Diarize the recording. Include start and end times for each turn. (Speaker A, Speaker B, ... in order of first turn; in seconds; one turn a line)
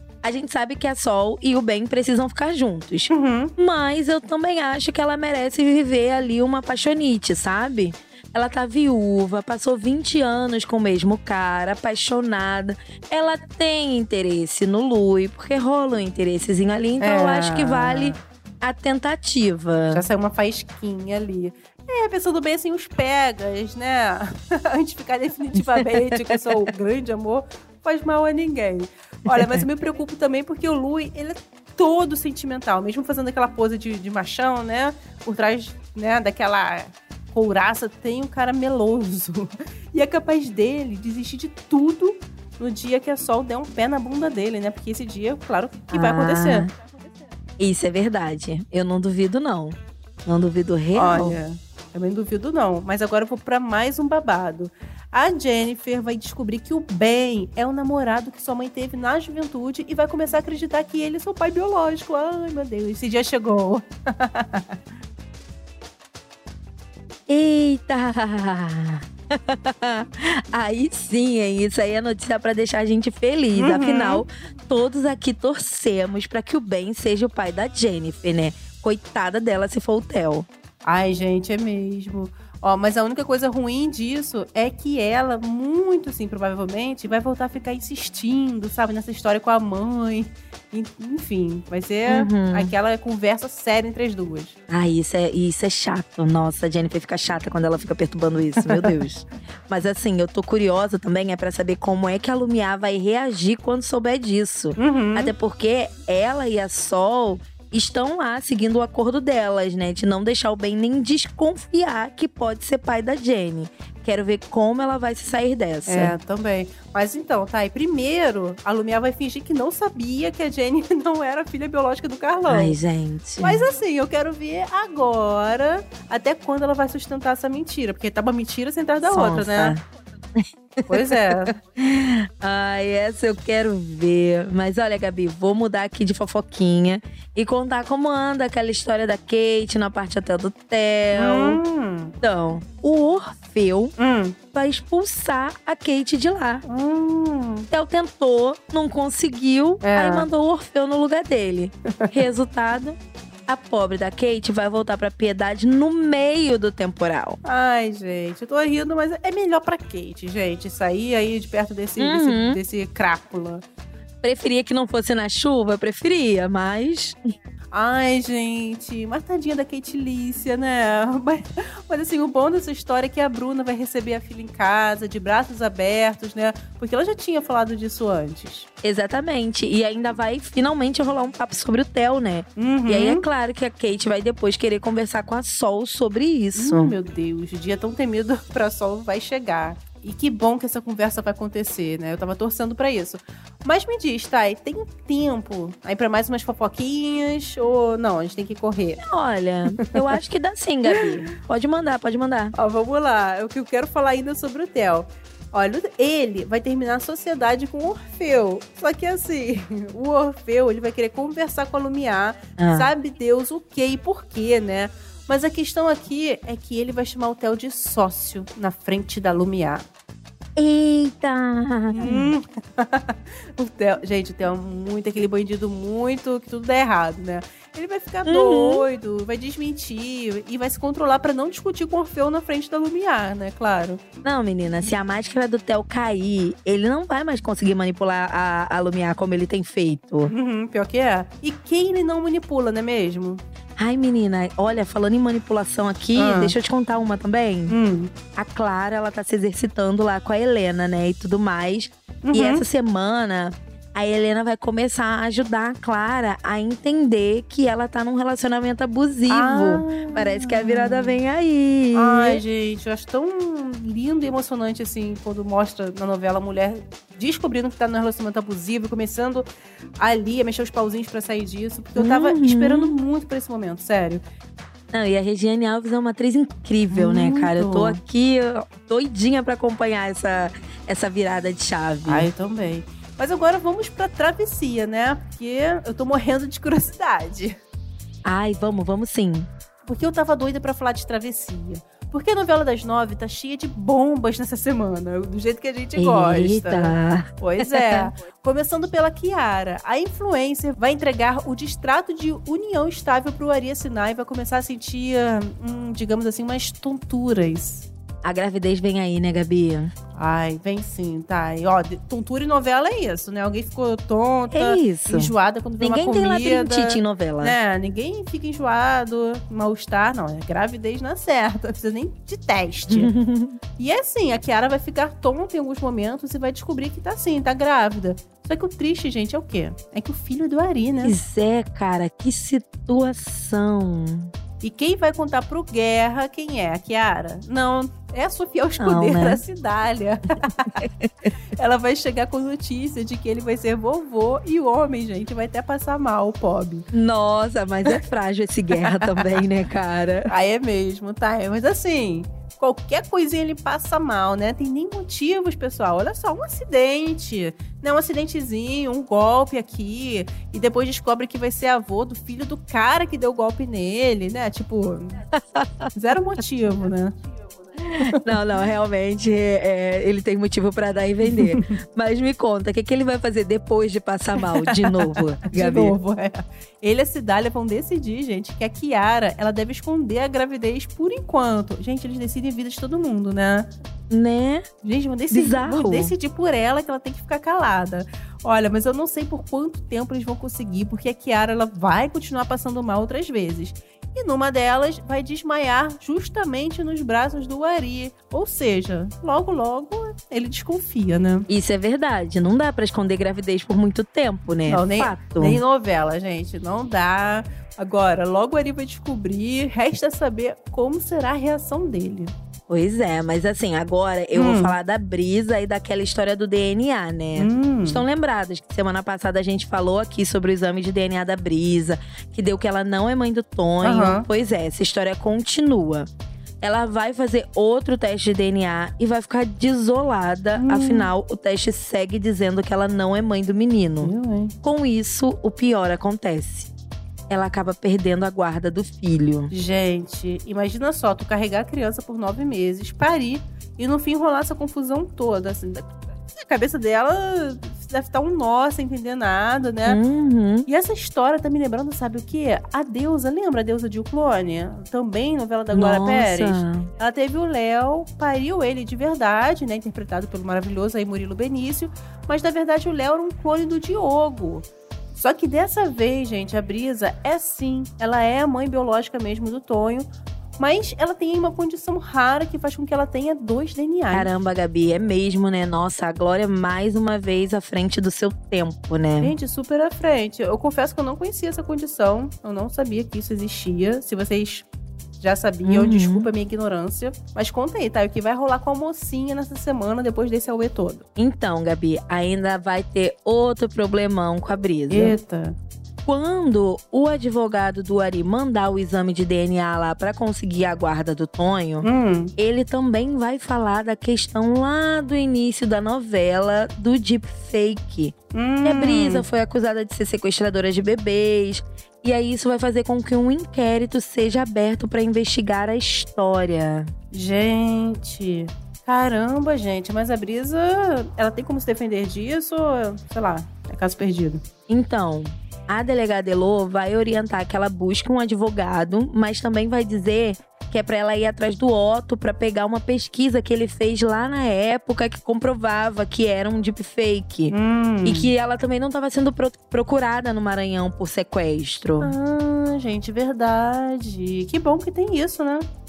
Speaker A: 0.2-20.1
Speaker B: 3.1-3.5
Speaker B: 17.0-18.2
Speaker B: 19.9-46.7
Speaker A: 25.7-26.5
Speaker A: 45.9-46.7
Speaker A: 47.6-51.4
Speaker B: 50.9-64.8
Speaker A: 67.3-80.5
Speaker B: 73.5-74.2
Speaker B: 80.8-94.6
Speaker A: 92.1-92.7
Speaker A: 94.7-116.2
Speaker B: 98.6-99.0
Speaker B: 104.8-105.3
Speaker B: 115.9-122.8
Speaker A: 122.5-123.7
Speaker B: 123.4-129.8
Speaker A: 129.0-129.8
Speaker A: 130.4-141.6
Speaker B: 130.9-131.6
Speaker B: 141.1-142.2
Speaker A: 142.2-143.9
Speaker B: 144.0-144.4
Speaker A: 144.5-146.6
Speaker B: 146.7-147.7
Speaker A: 147.7-153.0
Speaker B: 149.8-150.3
Speaker A: 153.5-157.4
Speaker B: 157.4-163.6
Speaker A: 162.0-162.6
Speaker A: 164.2-167.2
Speaker B: 167.7-178.7
Speaker A: 178.8-187.0
Speaker B: 182.6-183.3
Speaker B: 186.6-199.0
Speaker A: 199.0-202.5
Speaker B: 202.5-219.9
Speaker A: 212.6-212.9
Speaker A: 220.6-222.3
Speaker B: 221.9-234.0
Speaker A: 228.3-228.9
Speaker A: 234.2-240.3
Speaker B: 240.3-243.4
Speaker A: 243.8-247.8
Speaker B: 246.2-246.6
Speaker B: 247.7-248.1
Speaker A: 248.3-262.4
Speaker B: 252.3-252.7
Speaker B: 259.3-261.2
Speaker B: 261.9-269.5
Speaker B: 270.0-274.2
Speaker A: 272.0-273.0
Speaker A: 274.9-282.3
Speaker B: 276.9-278.0
Speaker B: 282.1-287.6
Speaker A: 288.2-289.5
Speaker B: 289.9-307.9
Speaker A: 296.0-298.1
Speaker A: 308.2-309.9
Speaker B: 310.1-323.1
Speaker A: 314.5-317.6
Speaker A: 322.9-323.6
Speaker B: 323.8-331.2
Speaker A: 331.0-334.3
Speaker B: 334.6-340.8
Speaker A: 338.8-339.4
Speaker B: 341.6-346.9
Speaker A: 346.9-350.3
Speaker B: 348.8-349.4
Speaker B: 350.3-365.2
Speaker A: 365.6-365.9
Speaker B: 365.9-367.1
Speaker A: 367.9-376.0
Speaker B: 371.3-371.6
Speaker B: 374.5-383.7
Speaker A: 384.1-384.6
Speaker B: 384.8-401.5
Speaker A: 385.3-386.1
Speaker A: 401.5-405.6
Speaker B: 404.7-412.3
Speaker A: 412.7-426.1
Speaker B: 414.3-414.8
Speaker B: 417.4-418.0
Speaker B: 423.8-424.3
Speaker A: 426.6-434.1
Speaker B: 430.6-431.1
Speaker B: 434.0-434.6
Speaker A: 434.6-436.7
Speaker A: 437.3-439.5
Speaker B: 439.5-450.0
Speaker A: 449.9-450.7
Speaker B: 450.7-474.3
Speaker A: 455.7-456.9
Speaker A: 474.1-479.3
Speaker B: 479.2-491.1
Speaker A: 485.6-486.3
Speaker A: 491.2-495.2
Speaker B: 494.9-495.6
Speaker A: 496.1-516.9
Speaker B: 501.8-502.3
Speaker B: 508.3-509.3
Speaker B: 517.1-524.4
Speaker A: 524.7-542.1
Speaker B: 537.5-538.3
Speaker B: 542.0-545.6